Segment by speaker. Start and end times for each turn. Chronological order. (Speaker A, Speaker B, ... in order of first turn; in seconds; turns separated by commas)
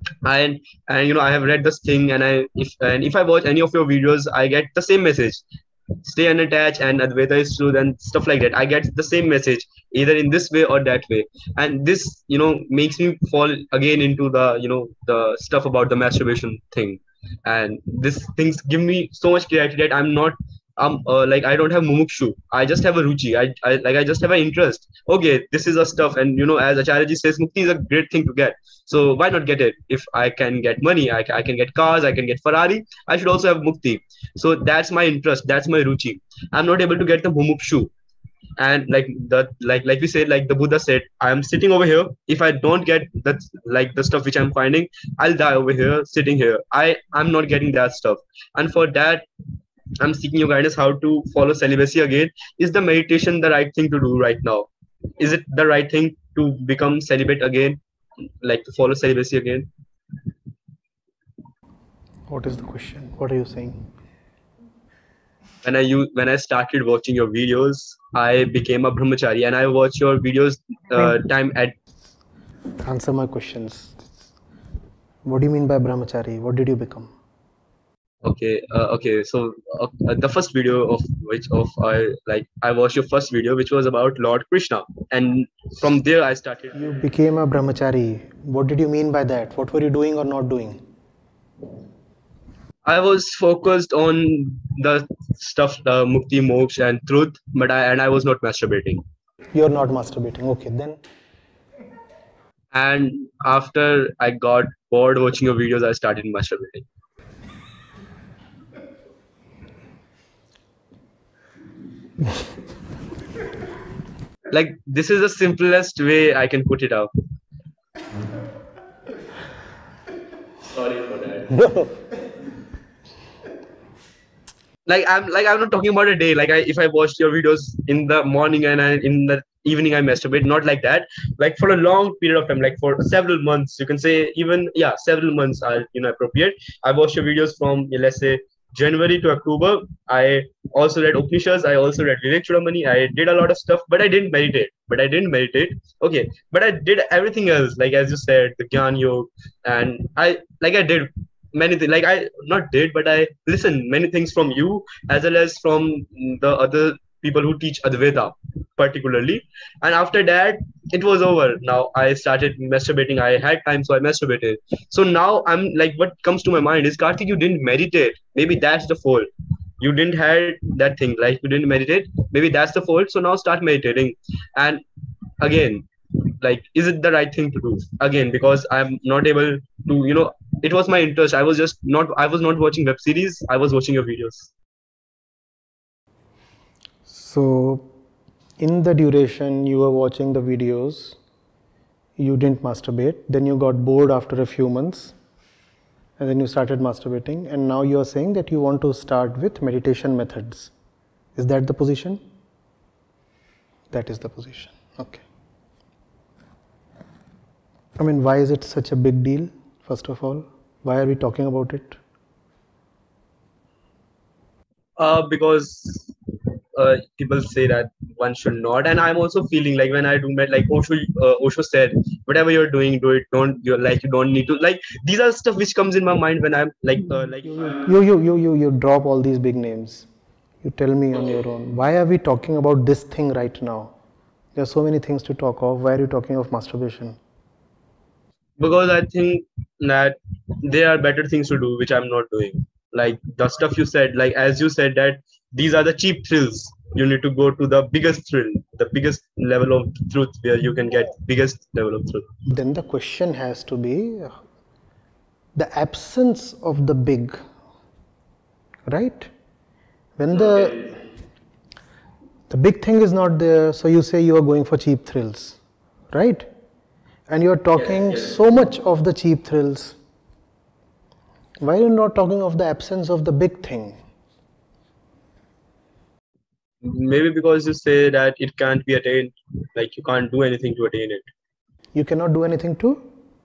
Speaker A: 0.2-5.4, Speaker A: 6.0-37.9, Speaker A: 38.6-49.3, Speaker A: 50.0-54.7, Speaker A: 55.2-57.8, Speaker A: 58.4-59.7, Speaker B: 62.3-63.8, Speaker A: 65.6-71.7, Speaker B: 72.8-74.1, Speaker B: 75.2-77.1, Speaker A: 78.2-87.1, Speaker B: 86.7-90.8, Speaker A: 92.8-99.0, Speaker B: 99.5-101.0, Speaker A: 102.7-106.8, Speaker A: 114.5-117.1, Speaker A: 120.6-121.9, Speaker A: 124.8-169.3, Speaker A: 169.8-174.8, Speaker A: 175.4-184.5, Speaker B: 187.1-187.9, Speaker B: 188.6-191.2, Speaker B: 192.2-195.1, Speaker B: 196.2-200.7, Speaker B: 201.3-202.2, Speaker B: 203.9-205.2, Speaker B: 208.0-212.0, Speaker A: 215.0-216.1, Speaker A: 216.7-227.9, Speaker B: 227.4-230.1, Speaker B: 230.6-233.9, Speaker B: 234.6-237.2, Speaker A: 238.6-252.2, Speaker B: 252.5-254.3, Speaker B: 255.6-257.4, Speaker B: 258.9-259.3, Speaker B: 260.2-260.9, Speaker A: 260.3-260.9, Speaker B: 262.5-265.6, Speaker B: 266.1-266.5, Speaker B: 267.3-270.0, Speaker A: 267.9-268.3, Speaker B: 271.6-274.0, Speaker A: 276.8-281.3, Speaker B: 281.9-283.0